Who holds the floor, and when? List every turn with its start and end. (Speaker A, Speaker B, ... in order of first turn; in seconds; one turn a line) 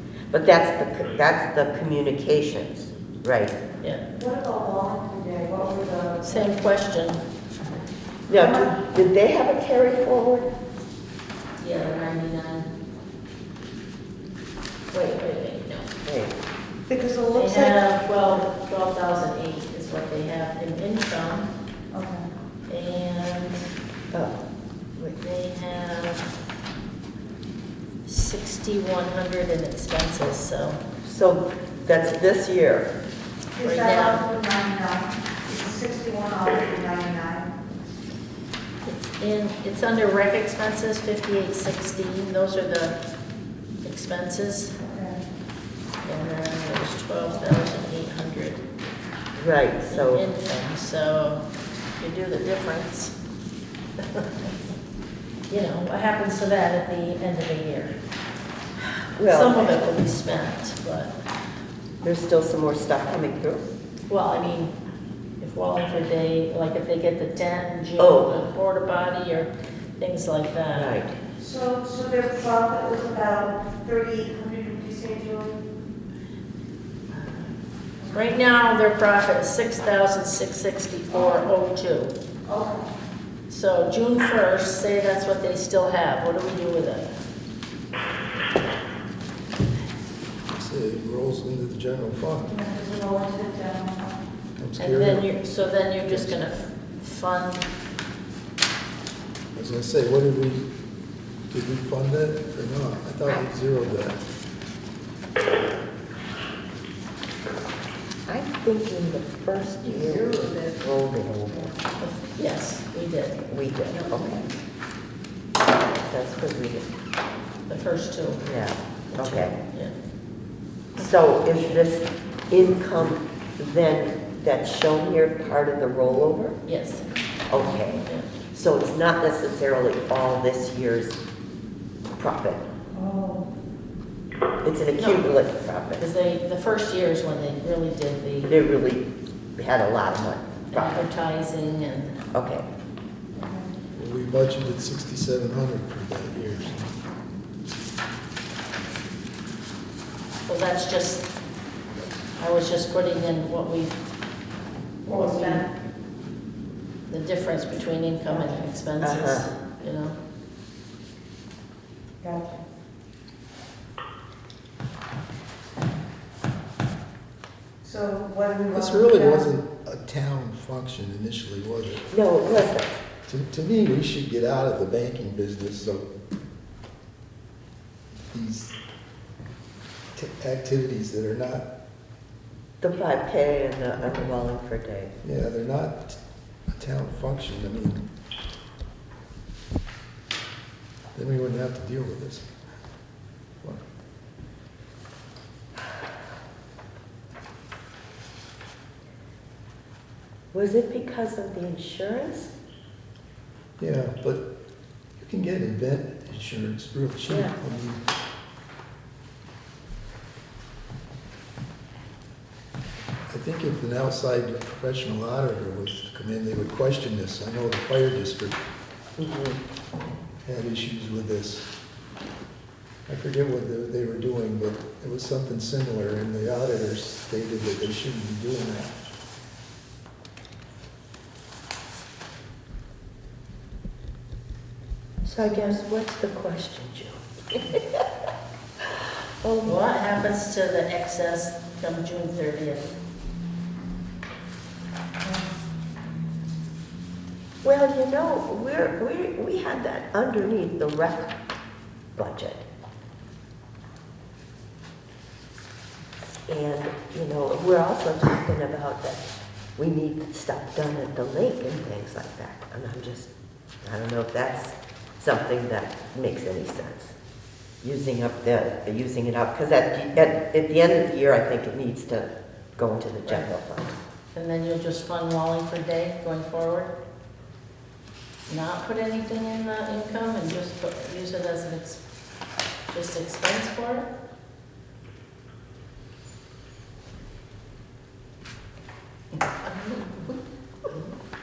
Speaker A: 0.3-3.5
Speaker B: 4.2-6.6
Speaker C: 6.2-7.2
Speaker A: 8.3-10.5
Speaker B: 8.3-8.8
Speaker C: 11.6-12.7
Speaker C: 14.9-15.9
Speaker A: 16.1-16.4
Speaker B: 16.9-17.8
Speaker C: 17.3-21.5
Speaker B: 21.9-22.3
Speaker C: 22.7-23.6
Speaker A: 24.1-24.4
Speaker C: 25.2-26.3
Speaker C: 28.1-30.8
Speaker A: 31.0-32.9
Speaker B: 33.5-37.5
Speaker C: 33.6-34.2
Speaker C: 38.9-43.0
Speaker C: 43.8-44.8
Speaker B: 44.8-45.2
Speaker C: 46.0-48.6
Speaker A: 49.4-50.2
Speaker C: 49.9-51.5
Speaker C: 52.0-53.1
Speaker C: 54.0-54.5
Speaker C: 55.5-58.0
Speaker A: 59.2-59.8
Speaker C: 59.2-61.1
Speaker A: 62.0-63.6
Speaker C: 64.1-64.7
Speaker C: 65.4-71.0
Speaker A: 68.0-68.4
Speaker A: 70.7-71.2
Speaker B: 71.4-75.6
Speaker C: 77.1-77.5
Speaker B: 78.0-78.3
Speaker C: 78.1-82.1
Speaker B: 82.5-82.9
Speaker C: 83.5-87.1
Speaker D: 90.5-92.5
Speaker B: 92.5-94.2
Speaker D: 94.6-95.3
Speaker C: 94.8-97.7
Speaker D: 96.1-96.4
Speaker D: 99.5-100.7
Speaker D: 101.5-104.2
Speaker A: 108.3-111.7
Speaker B: 109.8-110.8
Speaker B: 111.5-111.8
Speaker C: 112.0-113.4
Speaker A: 113.5-114.4
Speaker B: 113.9-114.4
Speaker A: 116.0-116.9
Speaker C: 117.7-118.5
Speaker A: 118.4-119.6
Speaker C: 119.1-119.9
Speaker A: 121.0-126.6
Speaker C: 121.0-121.8
Speaker C: 126.7-127.0
Speaker A: 127.5-128.0
Speaker C: 127.6-128.3
Speaker A: 128.5-131.2
Speaker A: 132.2-132.6
Speaker B: 132.9-133.5
Speaker A: 134.6-136.0
Speaker C: 135.0-135.3
Speaker C: 136.0-138.6
Speaker A: 138.5-139.1
Speaker A: 139.6-141.1
Speaker C: 140.7-142.2
Speaker A: 142.3-142.7
Speaker B: 143.4-143.8
Speaker D: 143.9-147.0
Speaker C: 150.5-151.3
Speaker C: 152.4-154.0
Speaker C: 155.1-155.7
Speaker B: 155.1-155.7
Speaker C: 157.1-160.2
Speaker B: 158.3-158.6
Speaker A: 159.0-159.5
Speaker B: 162.2-162.6
Speaker B: 167.8-169.4
Speaker D: 168.7-172.1
Speaker A: 172.1-173.0
Speaker D: 173.3-176.1
Speaker D: 178.3-178.7
Speaker D: 180.2-181.7
Speaker A: 182.8-185.1
Speaker D: 185.2-188.1
Speaker D: 191.1-192.5
Speaker A: 200.5-202.5
Speaker D: 203.8-204.4
Speaker D: 205.2-208.0
Speaker A: 207.3-207.5
Speaker D: 213.3-218.6
Speaker A: 219.2-219.6
Speaker D: 220.4-221.7
Speaker D: 223.1-228.9
Speaker A: 235.2-238.0
Speaker A: 239.4-239.8
Speaker C: 239.6-243.0
Speaker A: 247.6-251.3
Speaker A: 252.2-252.6
Speaker A: 256.5-259.2
Speaker A: 259.8-263.3
Speaker A: 263.8-267.1
Speaker A: 267.8-273.9
Speaker C: 274.3-276.9
Speaker C: 278.5-282.0
Speaker C: 282.9-284.1